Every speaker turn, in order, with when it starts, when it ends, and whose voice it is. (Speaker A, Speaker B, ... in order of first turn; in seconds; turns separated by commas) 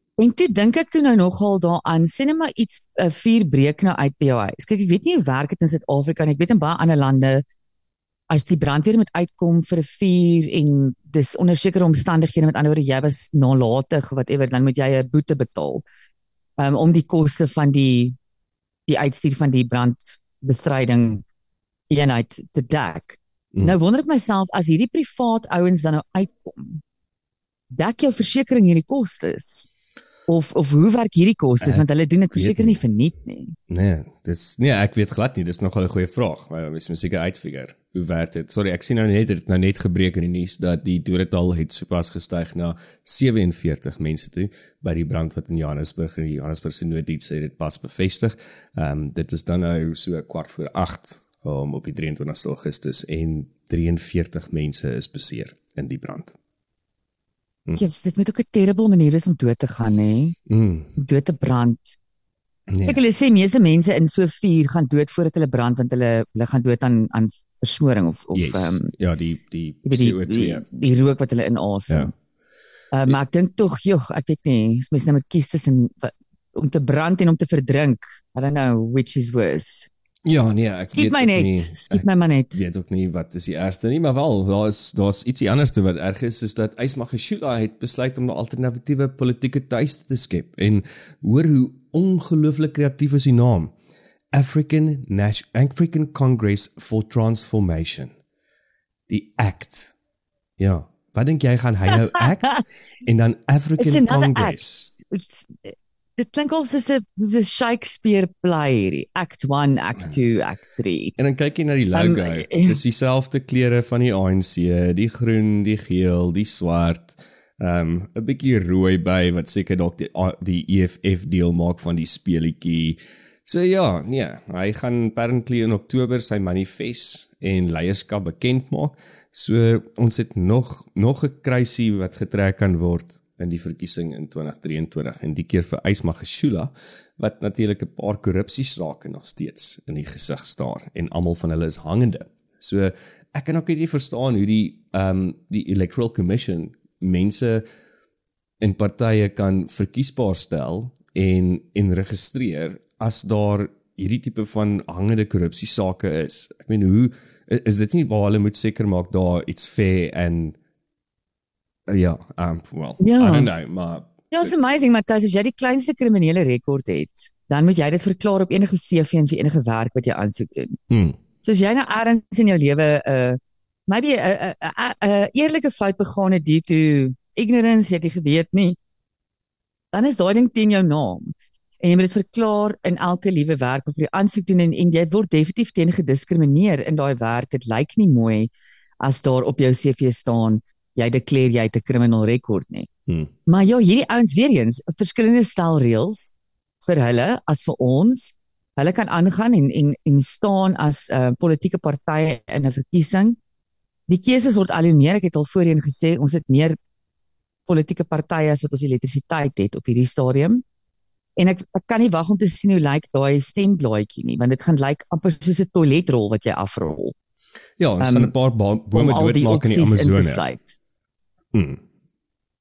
Speaker A: 0.2-7.4, Speaker A: 8.3-15.8, Speaker A: 16.6-18.1, Speaker A: 18.9-21.2, Speaker A: 21.9-26.8, Speaker A: 27.7-29.7, Speaker A: 30.3-33.6, Speaker B: 31.6-32.8, Speaker B: 33.7-56.3, Speaker A: 57.7-60.3, Speaker B: 60.5-60.9, Speaker A: 61.0-62.0, Speaker B: 62.7-63.0, Speaker A: 62.8-68.9, Speaker B: 68.3-70.6, Speaker A: 69.8-72.1, Speaker A: 72.9-79.9, Speaker B: 80.2-93.7, Speaker A: 80.9-82.6, Speaker B: 94.3-98.1, Speaker B: 99.1-99.9, Speaker B: 100.6-104.9, Speaker A: 103.8-111.1, Speaker B: 111.2-147.6, Speaker A: 111.9-112.8, Speaker B: 148.6-160.6, Speaker B: 161.9-164.5, Speaker A: 163.0-163.5, Speaker A: 164.3-170.8, Speaker B: 170.9-171.2, Speaker A: 171.4-178.8, Speaker A: 179.9-192.9, Speaker A: 193.5-203.4, Speaker A: 204.1-206.8, Speaker A: 207.7-210.6, Speaker A: 211.3-217.1, Speaker B: 217.8-220.4, Speaker A: 218.0-218.3, Speaker A: 218.9-220.7, Speaker B: 221.5-221.8